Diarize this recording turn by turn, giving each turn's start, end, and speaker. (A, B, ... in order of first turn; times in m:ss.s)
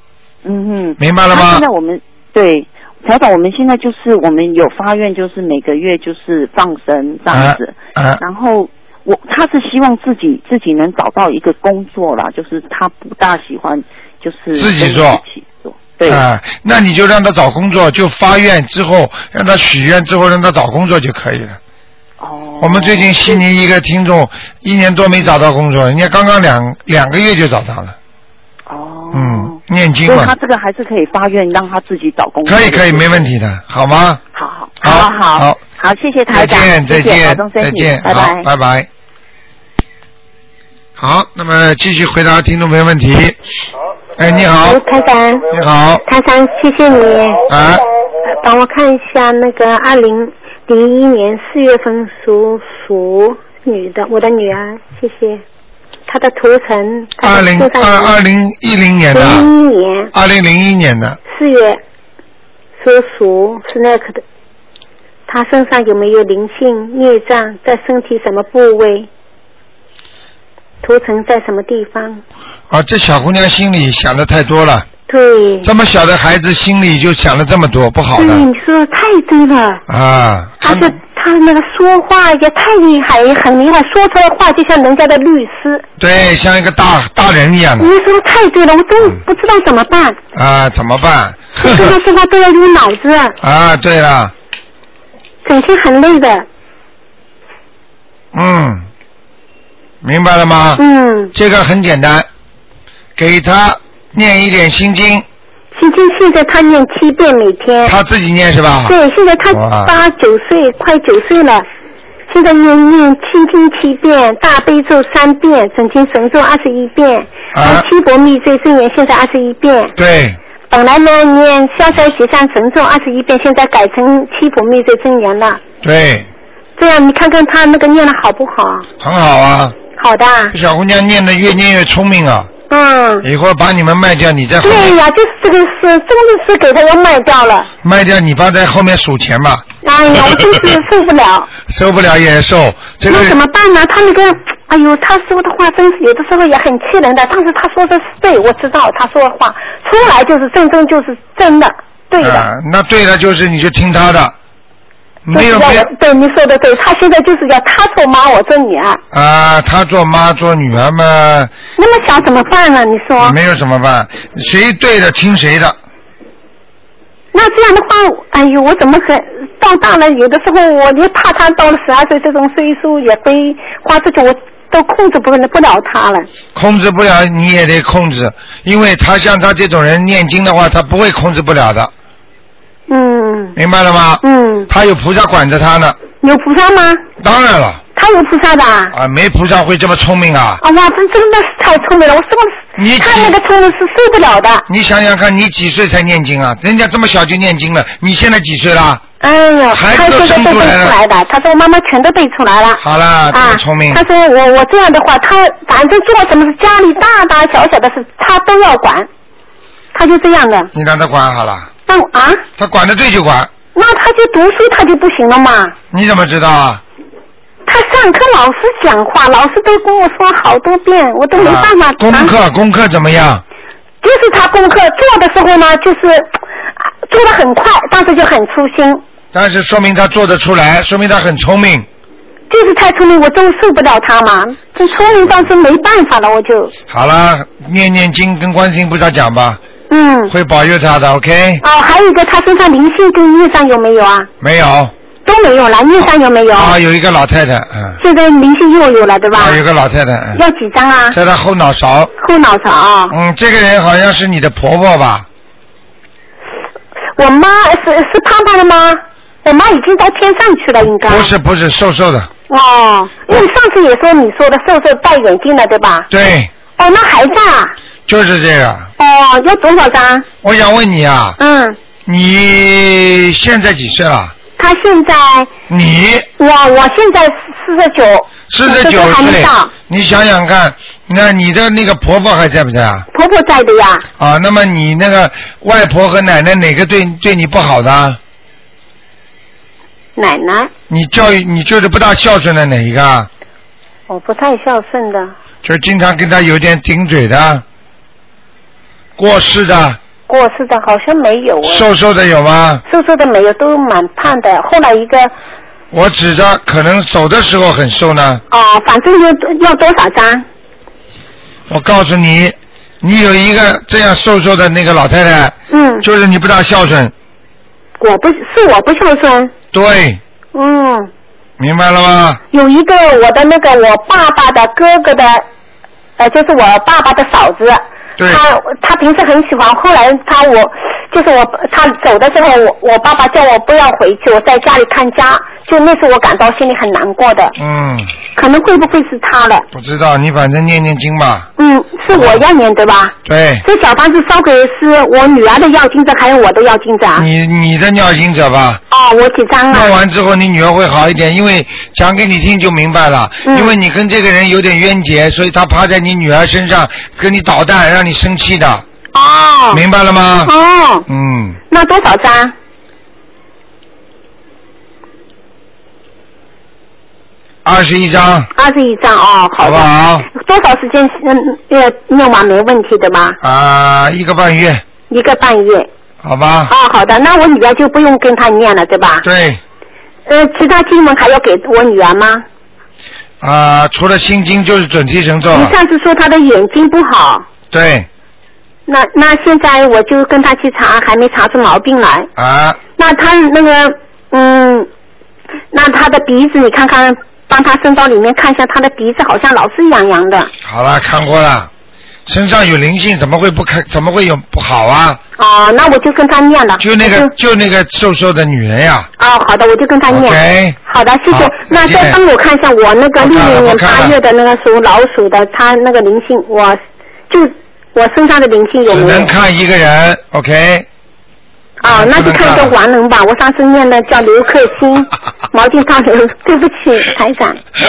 0:00.4-0:16.2 A
0:01.0-0:01.6 B
0:07.3-0:08.2 B
0:14.5-0:15.2 B
0:16.0-0:21.6 B
0:22.2-0:23.4 A
0:22.6-0:28.0 B
0:28.7-0:33.3 A
0:29.1-0:30.3 B
0:32.4-0:34.2 B
0:34.3-0:38.5 A
0:34.8-0:35.6 B
0:36.3-0:38.9 B
0:41.0-0:43.4 B
0:44.2-0:44.8 B
0:44.5-0:45.5 C
0:45.5-0:46.0 B
0:46.0-0:47.5 C
0:47.5-0:47.8 B
0:48.3-0:55.4 C
0:56.1-0:58.2 C
0:57.2-0:59.5 B
0:59.1-1:00.1 C
1:00.1-1:01.2 B
1:01.3-1:01.8 C
1:02.8-1:04.2 C
1:05.3-1:09.1 C
1:10.8-1:12.2 C
1:12.7-1:14.9 B
1:15.1-1:15.7 C
1:15.6-1:18.4 B
1:18.1-1:19.8 C
1:19.9-1:20.9 B
1:20.6-1:25.8 C
1:26.0-1:27.9 B
1:27.8-1:30.2 C
1:30.3-1:32.0 B
1:31.6-1:33.4 C
1:33.4-1:34.3 B
1:35.4-1:36.5 C
1:38.3-1:38.9 B
1:40.0-1:40.8 B
1:40.8-1:41.3 C
1:41.3-1:42.3 B
1:43.2-1:45.2 B
1:45.7-1:48.0 C
1:47.8-1:49.0 B
1:48.8-1:51.6 C
1:49.5-1:49.9 B
1:52.3-1:59.9 C
1:57.5-1:57.8 B
2:00.0-2:00.4 B
2:00.7-2:05.6 C
2:05.8-2:06.3 B
2:06.8-2:08.9 C
2:09.0-2:09.8 B
2:09.9-2:10.5 C
2:10.5-2:12.5 B
2:12.7-2:13.2 C
2:13.2-2:15.0 B
2:14.6-2:17.7 C
2:17.8-2:19.6 B
2:19.8-2:21.5 C
2:21.6-2:23.4 B
2:23.1-2:32.5 C
2:32.2-2:34.3 B
2:35.3-2:35.9 B
2:35.3-2:39.0 C
2:39.1-2:41.5 B
2:41.8-2:43.4 C
2:43.2-2:45.8 B
2:47.3-2:56.3 C
2:56.5-3:01.9 B
3:02.9-3:03.6 C
3:03.6-3:06.0 B
3:04.2-3:04.7 C
3:06.2-3:07.0 C
3:07.2-3:07.8 B
3:07.9-3:08.9 C
3:08.9-3:10.6 B
3:10.6-3:14.6 C
3:12.8-3:13.4 B
3:14.7-3:19.0 B
3:19.2-3:29.1 C
3:19.7-3:21.0 B
3:22.8-3:24.0 B
3:29.9-3:30.7 C
3:30.7-3:31.7 B
3:31.9-3:32.4 C
3:32.6-3:33.5 B
3:33.7-3:35.7 C
3:35.9-3:36.8 B
3:37.6-3:42.3 C
3:41.4-3:43.4 B
3:44.0-3:49.0 C
3:49.3-3:51.9 B
3:52.5-3:56.7 C
3:56.9-3:59.6 B
3:59.9-4:00.3 C
4:00.3-4:01.6 B
4:01.6-4:04.3 C
4:04.4-4:04.9 B
4:05.2-4:06.8 C
4:06.5-4:08.0 B
4:08.0-4:09.6 C
4:09.3-4:10.4 B
4:10.3-4:11.2 C
4:11.1-4:12.1 B
4:12.2-4:13.1 C
4:13.1-4:15.3 B
4:17.2-4:21.3 C
4:21.0-4:22.3 B
4:22.5-4:26.1 C
4:26.1-4:26.5 B
4:26.8-4:27.7 C
4:28.1-4:28.9 B
4:29.0-4:30.3 C
4:30.4-4:31.4 B
4:31.4-4:31.8 C
4:32.0-4:34.3 B
4:34.6-4:35.5 C
4:35.7-4:36.3 B
4:36.4-4:39.7 C
4:38.5-4:43.1 B
4:43.1-4:44.0 C
4:44.2-4:48.2 B
4:50.2-4:50.7 C
4:50.9-4:53.3 B
4:54.1-4:55.3 C
4:55.6-4:57.6 B
4:59.2-5:00.0 B
5:00.3-5:01.9 C
5:01.6-5:02.8 B
5:02.9-5:05.3 C
5:05.9-5:08.4 B
5:08.5-5:10.4 C
5:11.7-5:17.1 B
5:15.7-5:16.0 C
5:18.0-5:19.5 C
5:19.7-5:20.2 B
5:20.5-5:21.1 C
5:21.6-5:22.4 B
5:22.5-5:25.4 C
5:26.2-5:37.6 C
5:28.2-5:28.4 B
5:37.6-5:38.1 B
5:38.3-5:39.6 C
5:39.7-5:41.5 B
5:41.6-5:47.3 C
5:42.1-5:42.4 B
5:43.2-5:43.6 B
5:47.2-5:48.8 B
5:48.9-5:50.0 C
5:49.7-5:58.8 B
5:53.4-5:53.7 C
5:59.1-5:59.8 C
5:59.7-6:00.5 B
6:00.4-6:01.1 C
6:01.1-6:01.6 B
6:01.7-6:02.5 C
6:07.6-6:08.5 B
6:08.5-6:13.4 C
6:09.6-6:10.3 B
6:13.4-6:14.8 B
6:15.1-6:15.9 C
6:16.2-6:16.7 B
6:16.7-6:19.2 C
6:19.2-6:19.6 B
6:20.3-6:22.4 C
6:23.4-6:25.7 B
6:25.5-6:27.4 C
6:27.7-6:28.1 B
6:28.9-6:32.3 C
6:32.4-6:32.8 B
6:33.0-6:34.9 C
6:35.7-6:40.5 C
6:40.6-6:41.7 B
6:42.3-6:45.2 B
6:45.4-6:47.3 C
6:46.8-6:49.1 B
6:49.2-6:59.3 C
6:50.1-6:50.8 B
6:51.3-6:52.2 B
6:53.2-6:54.2 B
6:58.9-7:00.9 B
7:01.8-7:07.6 C
7:01.8-7:02.7 B